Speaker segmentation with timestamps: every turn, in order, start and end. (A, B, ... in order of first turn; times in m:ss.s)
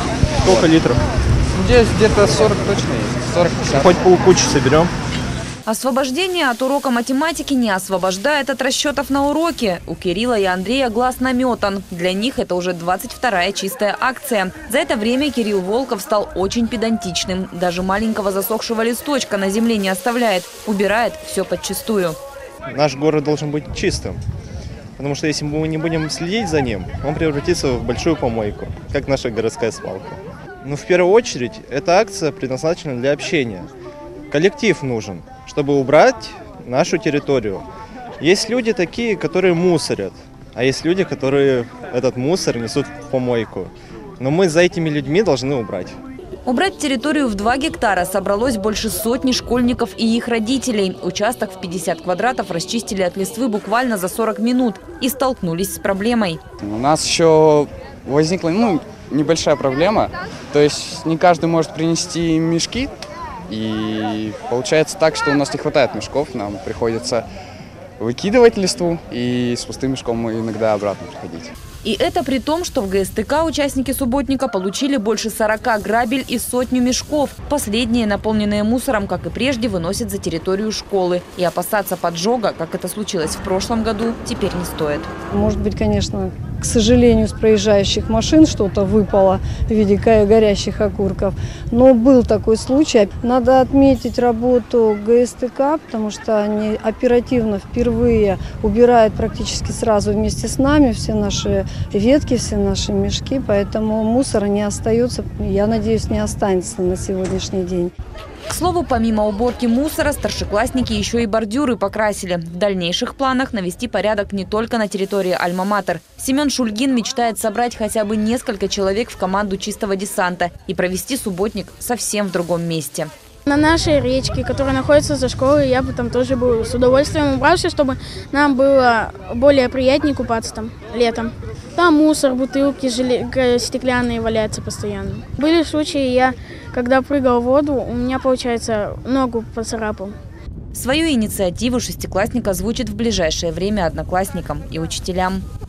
0:00.4-0:00.7 A
0:00.4-0:01.0 B
0:01.5-0:04.1 A
0:03.7-0:04.9 B
0:05.7-0:22.2 C
0:22.7-0:24.2 B
0:25.0-0:33.7 B
0:34.3-0:37.6 B
0:38.2-0:46.0 B
0:46.4-0:56.4 C
0:56.6-1:02.9 A
1:03.5-1:07.3 A
1:08.0-1:11.5 A
1:11.8-1:25.1 C
1:25.3-1:47.9 D
1:48.5-2:03.1 C
2:03.5-2:20.1 E
2:20.7-2:25.4 C